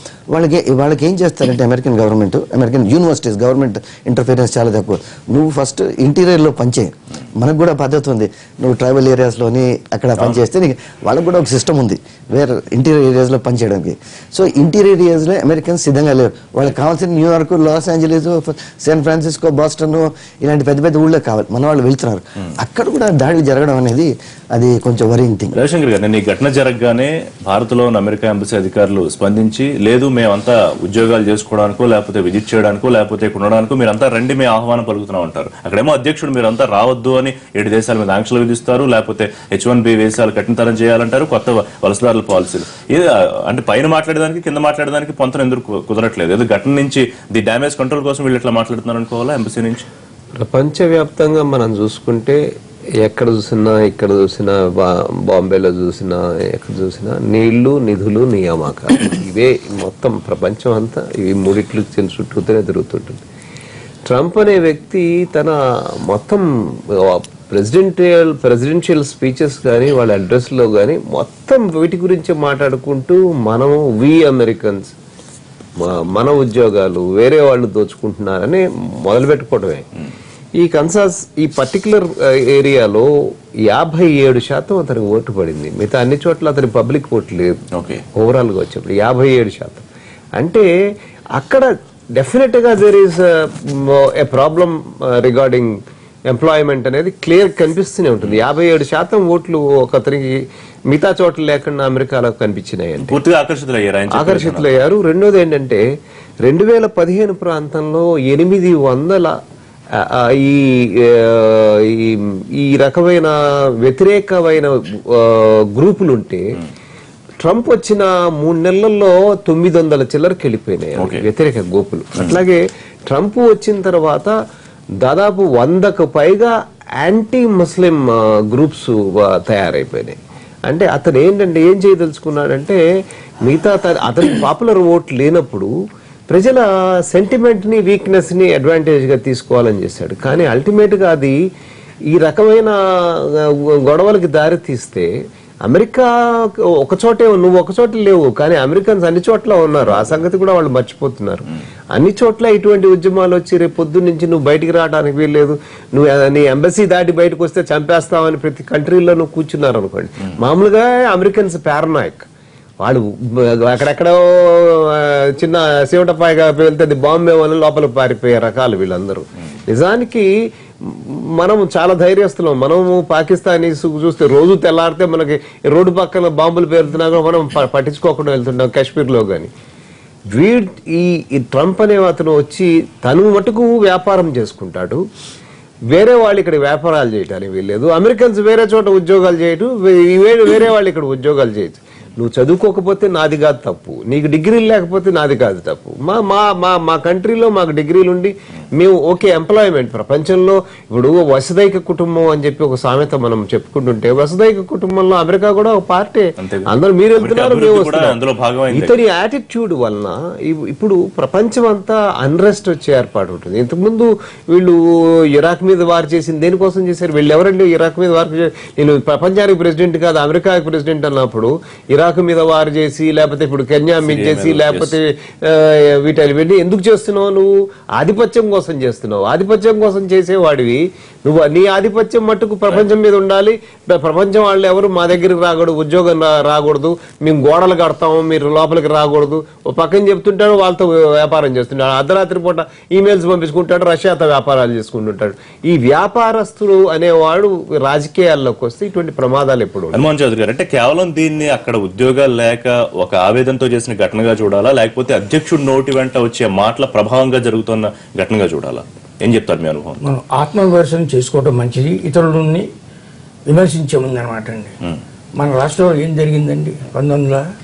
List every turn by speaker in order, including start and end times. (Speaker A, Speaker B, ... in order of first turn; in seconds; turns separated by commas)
Speaker A: 0.3-25.6, Speaker B: 25.6-49.9, Speaker C: 50.4-52.4, Speaker C: 53.0-63.2, Speaker C: 64.1-66.5, Speaker C: 67.0-74.9, Speaker C: 75.8-79.9, Speaker C: 80.6-83.1, Speaker C: 83.7-90.7, Speaker B: 87.7-88.0, Speaker C: 91.3-95.8, Speaker C: 96.3-100.4, Speaker C: 100.9-103.2, Speaker B: 103.1-104.7, Speaker C: 104.1-105.8, Speaker C: 106.4-109.4, Speaker C: 110.0-116.6, Speaker C: 117.4-124.3, Speaker B: 121.0-121.2, Speaker C: 125.0-132.8, Speaker C: 133.4-135.7, Speaker C: 136.3-141.4, Speaker C: 142.1-142.8, Speaker C: 143.4-145.1, Speaker C: 145.6-146.1, Speaker C: 146.8-162.3, Speaker C: 162.8-170.3, Speaker C: 170.8-179.5, Speaker C: 180.3-185.0, Speaker C: 185.9-214.8, Speaker B: 206.4-208.9, Speaker C: 215.3-250.1, Speaker B: 224.0-225.0, Speaker B: 249.9-260.0, Speaker D: 260.0-262.7, Speaker D: 263.5-264.7, Speaker D: 265.4-267.4